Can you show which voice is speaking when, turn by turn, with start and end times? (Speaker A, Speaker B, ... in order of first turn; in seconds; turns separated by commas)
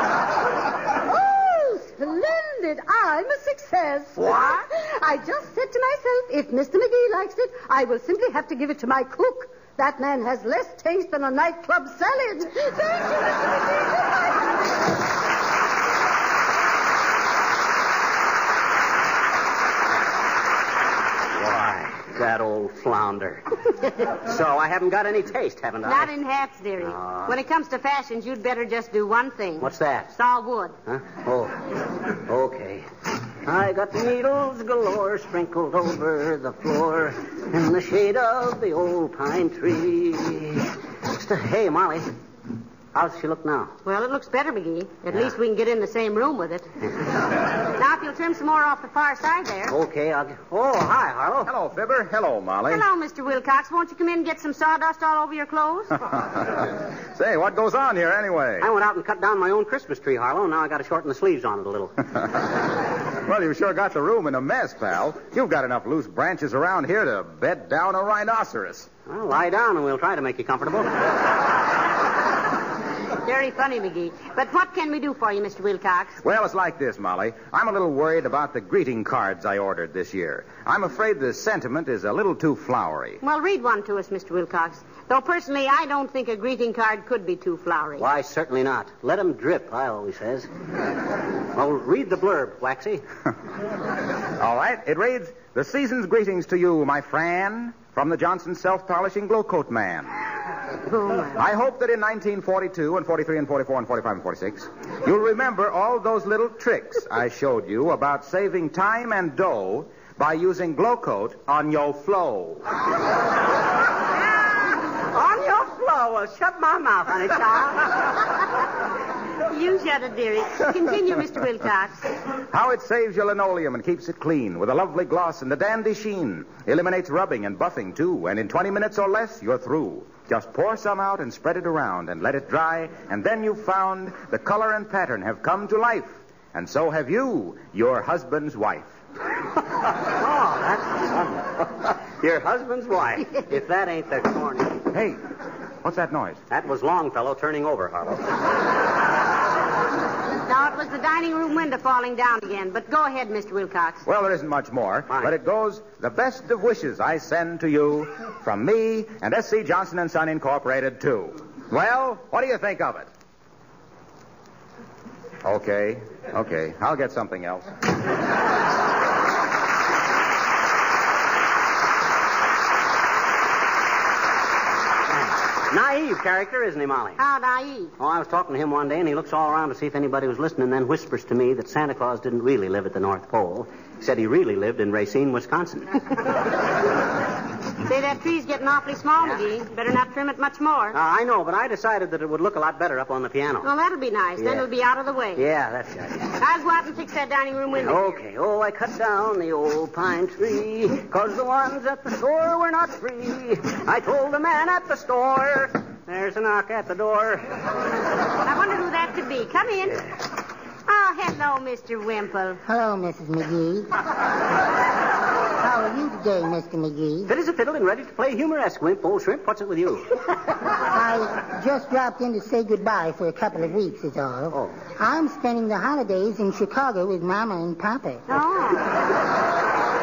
Speaker A: 1.0-14.1, Speaker B: 4.2-4.7, Speaker C: 21.4-26.1, Speaker B: 25.9-30.7, Speaker C: 26.8-27.4, Speaker C: 29.6-30.1, Speaker C: 30.9-31.6, Speaker C: 32.3-32.9, Speaker C: 33.5-42.1, Speaker C: 42.9-43.7, Speaker B: 43.9-46.6, Speaker B: 47.7-49.7, Speaker C: 49.7-51.5, Speaker D: 51.4-52.8, Speaker B: 52.7-55.9, Speaker D: 56.3-58.7, Speaker C: 58.6-62.0, Speaker D: 63.3-68.9, Speaker C: 69.1-70.9, Speaker B: 73.2-76.2, Speaker D: 76.2-83.2, Speaker B: 83.2-88.0, Speaker C: 88.0-90.5, Speaker C: 91.5-93.0, Speaker D: 94.4-100.1, Speaker B: 100.9-101.4, Speaker D: 101.4-112.6, Speaker C: 115.1-117.9, Speaker B: 119.5-122.0, Speaker D: 122.5-138.9, Speaker C: 139.8-144.8, Speaker D: 144.9-145.2, Speaker D: 145.8-146.4, Speaker C: 146.5-148.2, Speaker B: 150.4-154.0, Speaker D: 154.1-163.1, Speaker D: 165.4-167.7, Speaker C: 175.2-177.2, Speaker B: 177.2-177.9, Speaker C: 178.0-186.0, Speaker B: 187.9-190.9, Speaker C: 190.9-193.7, Speaker B: 193.6-195.4, Speaker C: 194.4-194.6, Speaker C: 195.4-196.4, Speaker B: 196.4-198.2, Speaker C: 197.7-207.5, Speaker B: 208.4-210.0, Speaker B: 210.9-212.6, Speaker E: 212.6-213.9, Speaker E: 215.6-217.3, Speaker C: 217.3-220.1, Speaker E: 220.9-228.3, Speaker B: 228.3-228.8